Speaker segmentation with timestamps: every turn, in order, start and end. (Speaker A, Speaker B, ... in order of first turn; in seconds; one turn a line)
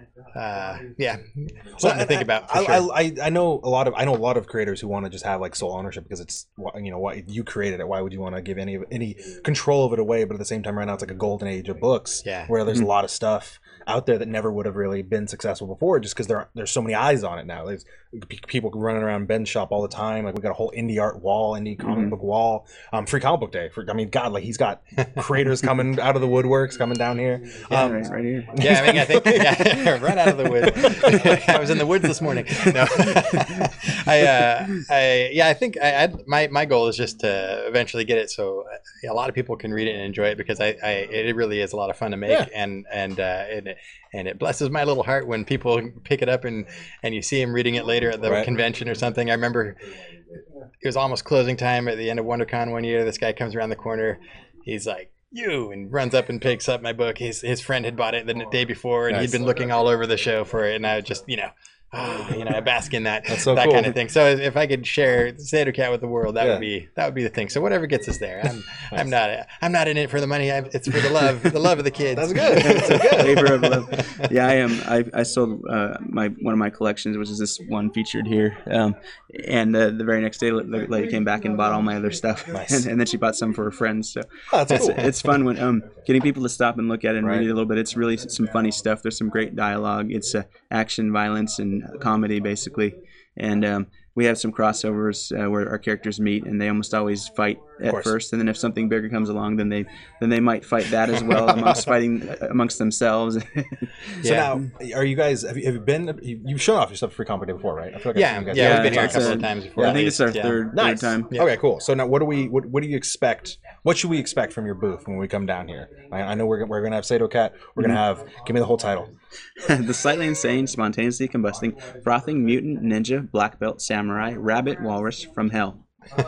Speaker A: 0.3-2.9
Speaker B: 1.8-31.3
Speaker A: 12.2-12.5
Speaker C: 27.7-28.6
Speaker A: 28.6-49.8
Speaker C: 32.6-33.6
Speaker A: 50.8-73.5
Speaker B: 63.3-64.0
Speaker B: 66.4-66.7
Speaker B: 72.1-74.0
Speaker C: 72.6-104.2
Speaker B: 82.5-82.9
Speaker B: 84.5-85.3
Speaker B: 87.2-87.5
Speaker B: 97.8-98.1
Speaker A: 104.2-104.6
Speaker B: 104.2-110.0
Speaker A: 108.1-110.8
Speaker C: 108.5-111.3
Speaker B: 110.7-119.1
Speaker C: 119.6-125.8